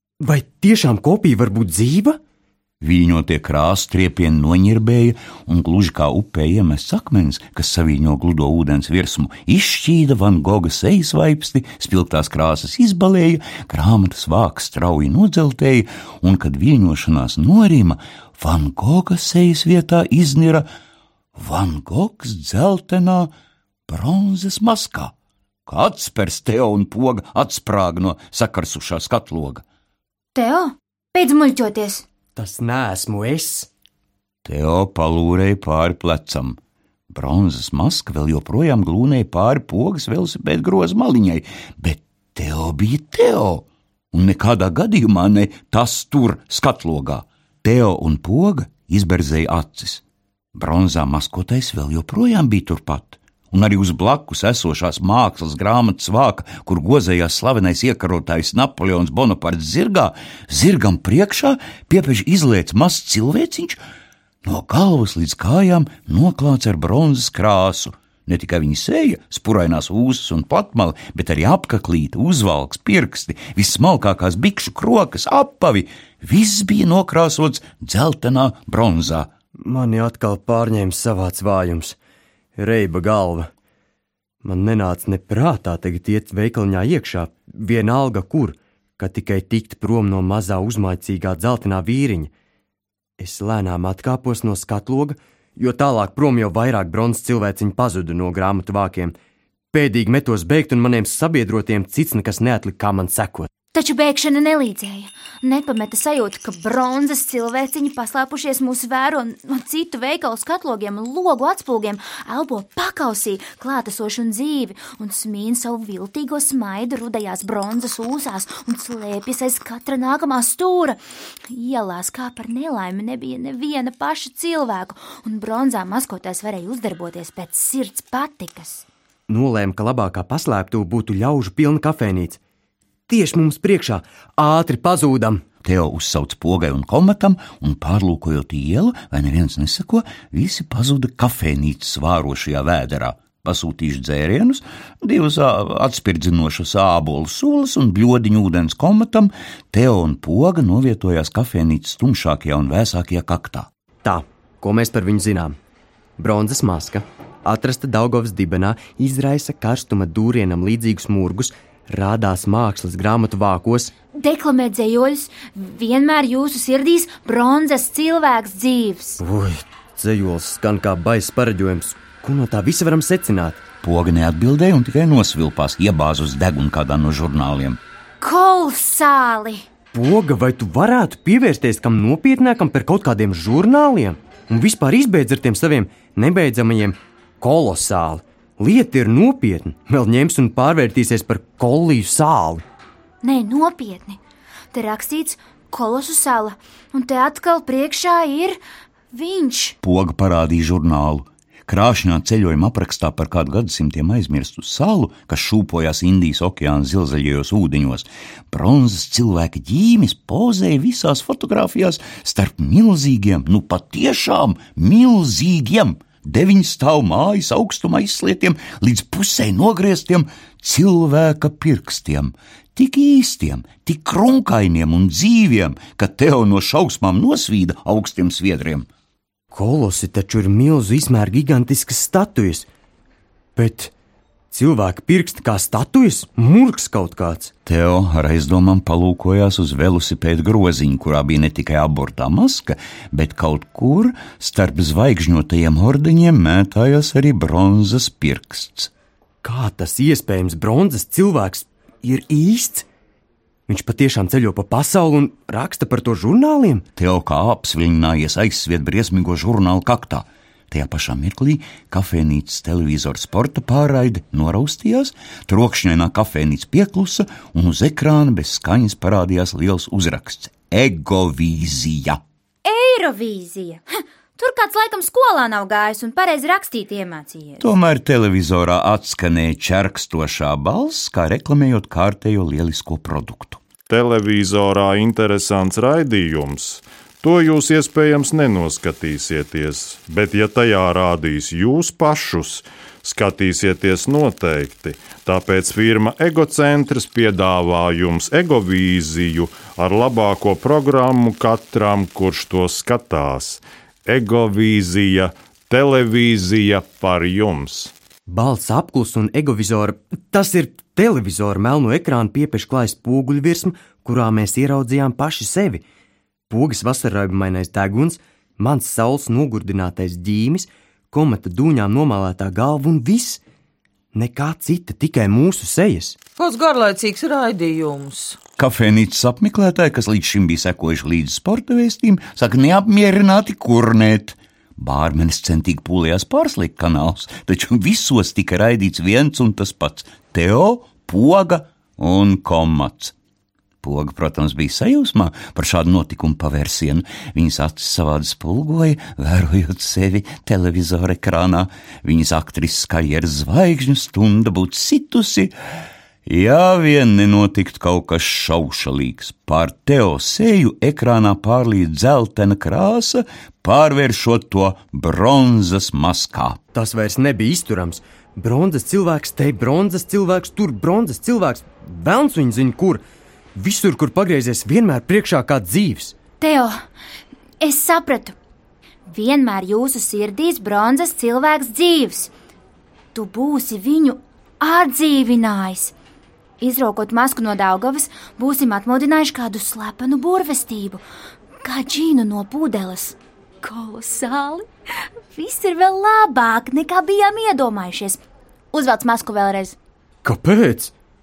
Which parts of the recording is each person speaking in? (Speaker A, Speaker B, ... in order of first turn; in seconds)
Speaker A: 0.2-2.2, 32.4-33.7, 79.6-82.0, 82.6-83.5, 84.4-92.3, 93.2-99.1, 99.7-103.5, 129.3-132.4, 133.1-135.4, 154.0-155.5, 156.2-163.9, 169.2-173.6, 179.9-192.6, 229.5-232.7, 233.6-233.9, 234.5-237.5, 249.4-252.9, 253.7-256.8, 308.3-315.8, 316.5-323.4, 324.1-326.2, 366.7-373.0, 373.6-376.1, 400.2-400.9
Speaker B: 2.8-20.6, 21.4-23.3, 23.9-25.1, 25.6-29.6, 34.4-36.6, 37.1-50.0, 50.5-63.8, 64.4-79.3, 135.6-153.7, 173.8-177.8, 199.8-228.9, 237.7-248.9, 256.9-272.2, 277.6-283.6, 328.6-343.1, 343.8-355.5, 356.2-366.6
Speaker C: 30.3-32.0, 103.7-128.8, 164.2-169.2, 178.2-179.6, 193.2-194.2, 194.7-198.6, 199.1-199.8, 272.6-277.6, 376.4-376.8, 377.6-378.3, 379.1-382.3, 383.1-385.9, 386.6-391.0, 391.6-394.6, 395.3-398.2, 398.7-399.8
Speaker D: 283.9-307.9
Speaker E: 326.4-328.4